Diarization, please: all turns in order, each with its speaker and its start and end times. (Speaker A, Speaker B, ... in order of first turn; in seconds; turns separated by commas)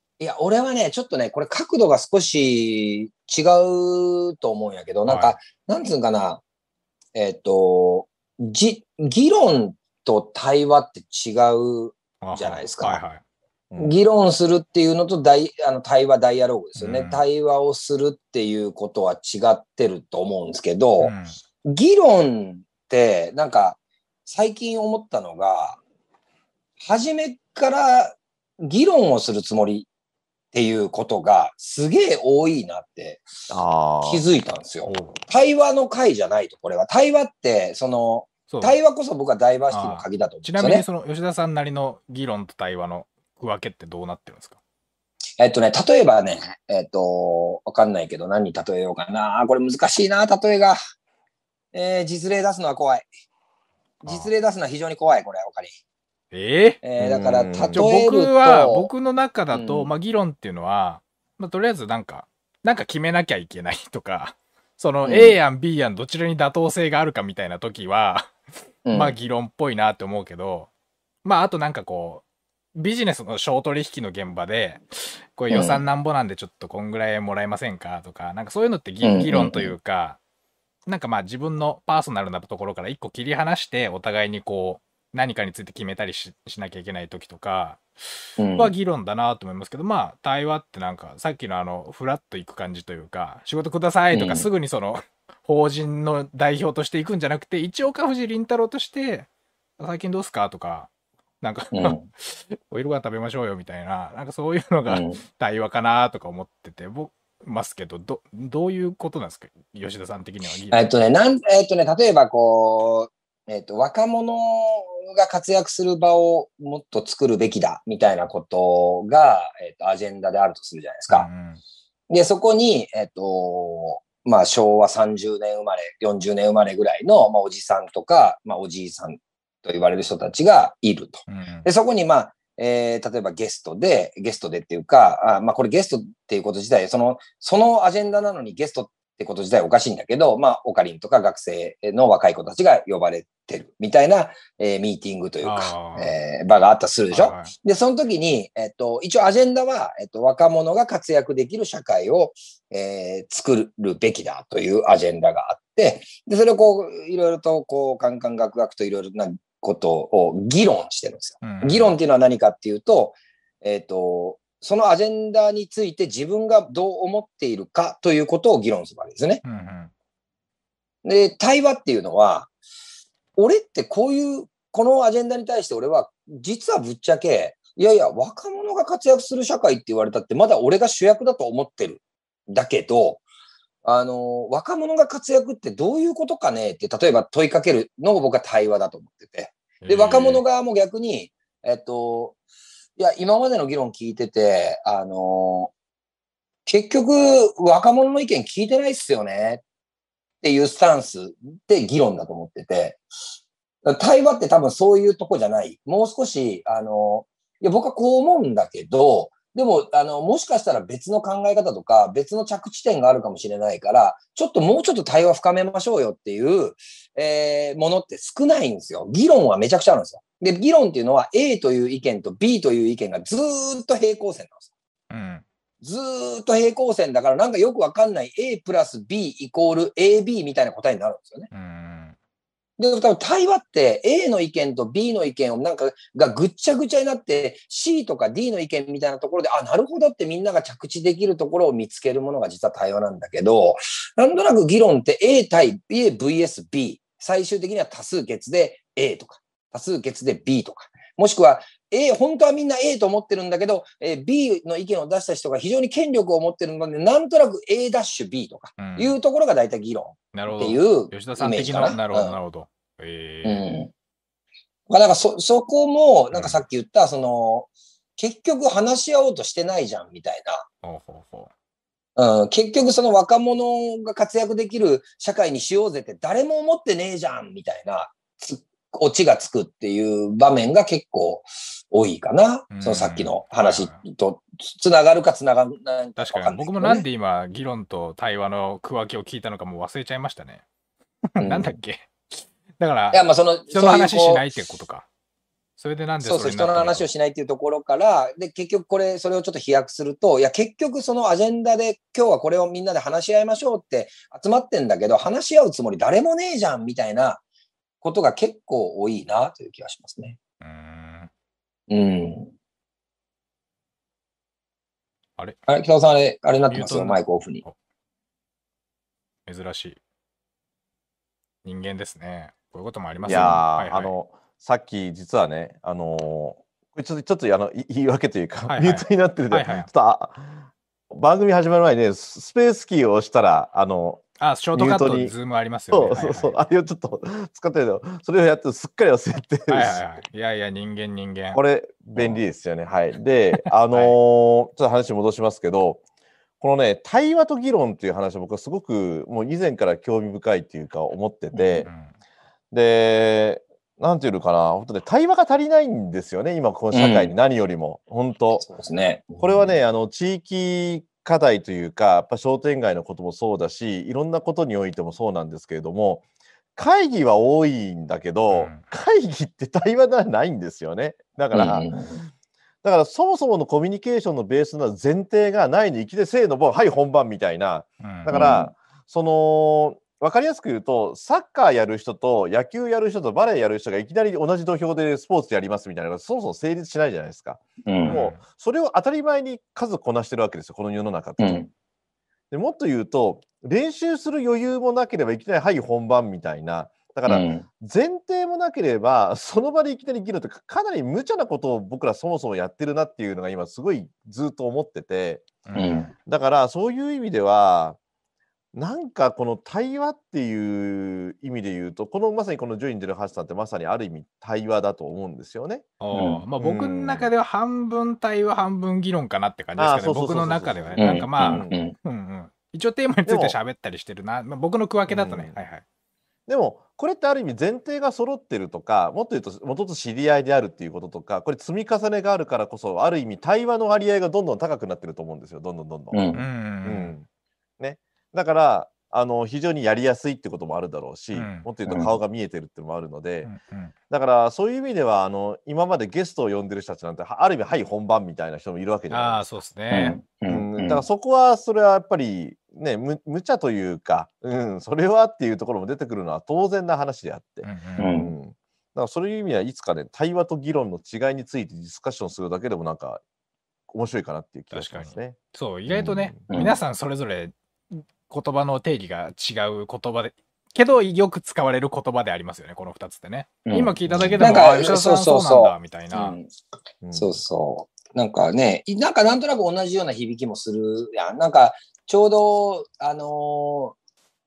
Speaker A: 0.2-6.4, Speaker B: 5.0-5.4, Speaker A: 7.1-13.0, Speaker B: 12.2-13.2, Speaker C: 13.7-14.0, Speaker A: 13.8-21.1, Speaker B: 16.8-17.2, Speaker B: 21.0-21.4, Speaker A: 21.6-25.8, Speaker A: 26.8-29.9, Speaker A: 30.5-33.3, Speaker C: 33.5-34.2, Speaker A: 34.0-40.8, Speaker B: 34.9-35.2, Speaker B: 38.5-38.8, Speaker B: 39.7-44.6, Speaker A: 45.4-50.8, Speaker A: 51.7-53.1, Speaker B: 54.0-54.3, Speaker A: 54.0-55.7, Speaker B: 56.3-56.8, Speaker A: 56.8-58.9, Speaker C: 57.0-57.9, Speaker B: 57.7-68.3, Speaker A: 59.5-59.9, Speaker A: 65.0-65.4, Speaker A: 68.8-69.2, Speaker B: 68.9-70.7, Speaker B: 71.2-72.2, Speaker B: 72.8-80.2, Speaker A: 75.5-75.8, Speaker A: 79.0-79.7, Speaker B: 80.9-100.9, Speaker A: 88.4-88.7, Speaker A: 94.1-94.5, Speaker B: 101.4-110.9, Speaker A: 101.7-102.0, Speaker A: 104.9-105.2, Speaker A: 110.7-121.3, Speaker B: 121.1-121.6, Speaker A: 122.1-169.4, Speaker B: 131.3-131.7, Speaker B: 145.4-146.1, Speaker B: 147.1-147.5, Speaker B: 161.4-161.9, Speaker B: 169.4-169.9, Speaker A: 171.0-172.5, Speaker A: 173.3-183.2, Speaker A: 183.8-192.3, Speaker B: 189.8-190.4, Speaker A: 193.0-195.7, Speaker A: 196.7-199.6, Speaker A: 200.4-203.0, Speaker A: 203.8-224.6, Speaker B: 225.1-225.4, Speaker A: 225.8-231.5, Speaker B: 231.5-232.2, Speaker A: 232.8-262.4, Speaker B: 258.8-259.2, Speaker B: 260.3-263.6, Speaker A: 263.4-263.9, Speaker A: 264.9-270.7, Speaker B: 266.3-266.6, Speaker B: 270.8-271.5, Speaker A: 272.2-287.0, Speaker B: 282.7-284.0, Speaker B: 286.2-290.6, Speaker B: 291.3-295.1, Speaker A: 291.4-291.8, Speaker A: 293.1-294.4, Speaker B: 295.8-297.1, Speaker A: 296.2-307.4, Speaker A: 308.0-310.4, Speaker B: 310.6-311.3, Speaker A: 311.9-312.5, Speaker A: 315.7-317.6, Speaker B: 316.7-317.7, Speaker B: 319.4-320.0, Speaker B: 321.6-324.1, Speaker C: 323.2-334.2, Speaker B: 328.7-329.9, Speaker B: 334.4-336.6, Speaker C: 334.7-335.3, Speaker C: 335.9-340.0, Speaker B: 339.7-341.6, Speaker C: 341.5-346.0, Speaker B: 343.8-344.2, Speaker C: 346.6-351.9, Speaker A: 351.5-351.9, Speaker C: 352.7-358.6, Speaker A: 356.9-357.3, Speaker A: 358.6-359.7, Speaker C: 359.4-366.2, Speaker C: 366.8-372.3, Speaker B: 368.5-368.8, Speaker A: 371.5-372.2, Speaker C: 372.8-391.7, Speaker B: 378.0-378.3, Speaker A: 378.3-378.7, Speaker A: 387.9-388.2, Speaker B: 388.0-388.4, Speaker A: 391.4-391.7, Speaker C: 392.5-405.5, Speaker A: 397.3-397.6, Speaker B: 405.6-406.0, Speaker A: 405.8-406.1, Speaker C: 406.2-408.0, Speaker C: 408.7-415.9, Speaker B: 416.0-425.8, Speaker A: 416.1-416.4, Speaker C: 416.6-417.3, Speaker C: 419.8-421.8, Speaker A: 421.0-421.9, Speaker C: 423.2-423.6, Speaker C: 425.1-425.6, Speaker C: 426.5-437.2, Speaker A: 436.1-436.4, Speaker B: 436.3-437.1, Speaker C: 437.8-443.5, Speaker B: 441.3-441.7, Speaker A: 441.9-442.1, Speaker B: 443.4-443.9, Speaker C: 444.1-449.5, Speaker B: 449.1-450.1, Speaker A: 449.9-451.0, Speaker C: 450.5-463.2, Speaker B: 457.6-458.1, Speaker A: 458.0-458.3, Speaker C: 463.9-466.5, Speaker B: 464.7-476.4, Speaker A: 466.5-466.8, Speaker A: 473.6-476.5, Speaker C: 474.1-474.6, Speaker C: 477.0-477.4, Speaker A: 477.1-483.9